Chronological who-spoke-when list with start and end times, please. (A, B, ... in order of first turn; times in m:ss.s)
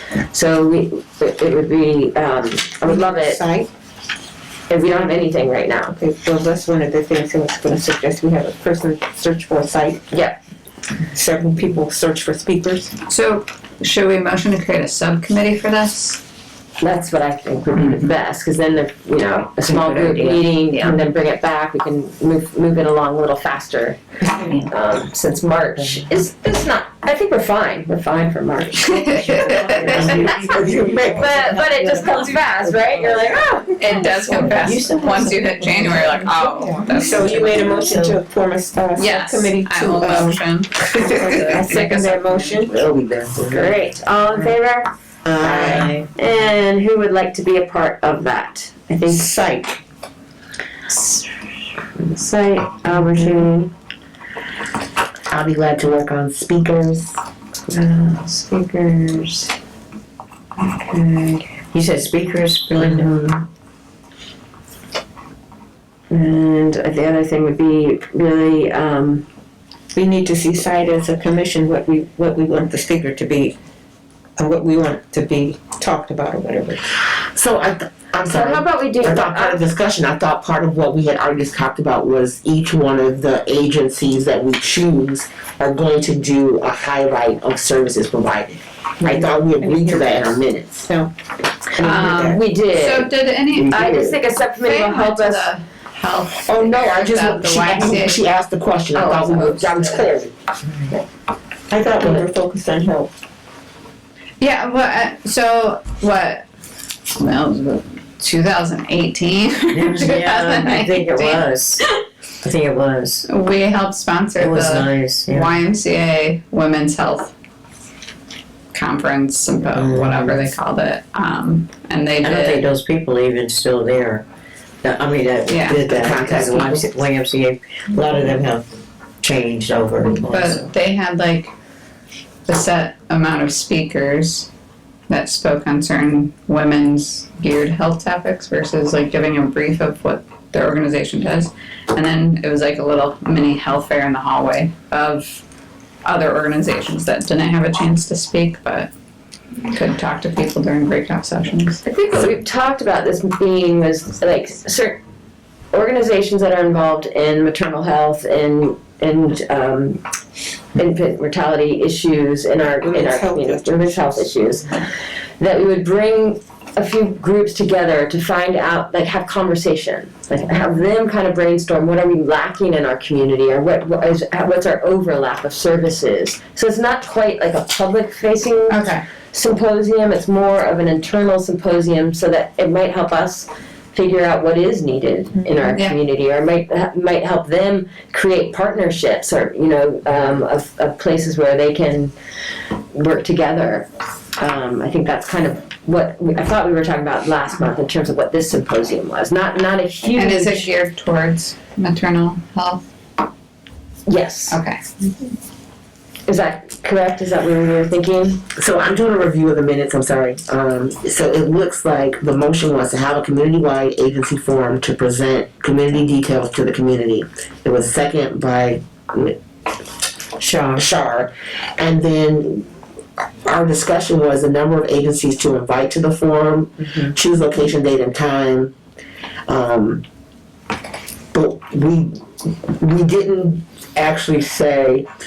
0:00.2-0:03.4 A
0:02.8-0:03.7 B
0:04.7-0:06.0 A
0:06.0-0:10.1 B
0:10.1-0:10.4 A
0:11.1-0:12.9 B
0:13.1-0:16.2 C
0:16.8-0:29.3 A
0:19.8-0:20.4 D
0:20.3-0:21.0 C
0:28.8-0:30.3 C
0:29.2-0:30.3 B
0:29.4-0:33.4 D
0:29.8-0:31.6 E
0:31.1-0:34.5 A
0:33.8-0:37.5 C
0:34.0-0:38.2 D
0:36.9-0:42.7 B
0:39.0-0:42.7 C
0:42.7-0:43.8 E
0:43.4-0:44.9 A
0:45.2-0:46.0 E
0:45.4-0:46.1 D
0:46.2-0:49.4 A
0:49.1-0:49.8 B
0:52.0-0:53.7 A
0:55.3-0:57.2 E
0:57.7-0:59.4 A
1:00.9-1:01.3 A
1:01.6-1:03.1 D
1:02.8-1:03.4 E
1:06.1-1:09.2 A
1:09.9-1:13.6 B
1:14.4-1:16.8 B
1:17.2-1:30.9 E
1:18.3-1:19.6 A
1:29.0-1:31.1 B
1:31.7-1:32.4 B
1:31.8-1:38.2 C
1:32.2-1:35.5 A
1:33.6-1:33.9 E
1:36.5-1:40.3 E
1:38.9-1:40.0 A
1:39.1-1:39.9 C
1:41.7-1:43.1 B
1:44.4-1:46.5 C
1:47.1-1:52.0 C
1:49.7-1:51.8 D
1:52.4-1:53.3 D
1:53.3-1:57.3 C
1:54.4-1:55.6 D
1:58.7-2:02.7 C
1:59.7-2:00.5 D
2:02.2-2:04.2 D
2:04.8-2:08.6 D
2:05.5-2:05.8 C
2:05.9-2:06.9 E
2:09.2-2:10.7 D
2:10.2-2:11.5 C
2:12.5-2:14.5 C
2:15.1-2:25.4 C
2:26.0-2:28.9 C
2:29.6-2:31.8 C
2:31.8-2:35.0 A
2:35.7-2:40.0 A
2:40.8-3:12.1 A
2:42.8-2:44.3 B
2:58.7-2:59.0 C
3:12.9-3:20.7 A
3:20.1-3:22.8 C
3:24.1-3:24.6 A
3:24.5-3:24.8 C
3:26.3-3:28.4 A
3:28.5-3:39.4 E
3:40.4-3:40.8 D
3:40.8-3:42.7 E
3:43.4-3:48.7 E
3:49.5-3:50.0 E
3:51.3-3:55.1 E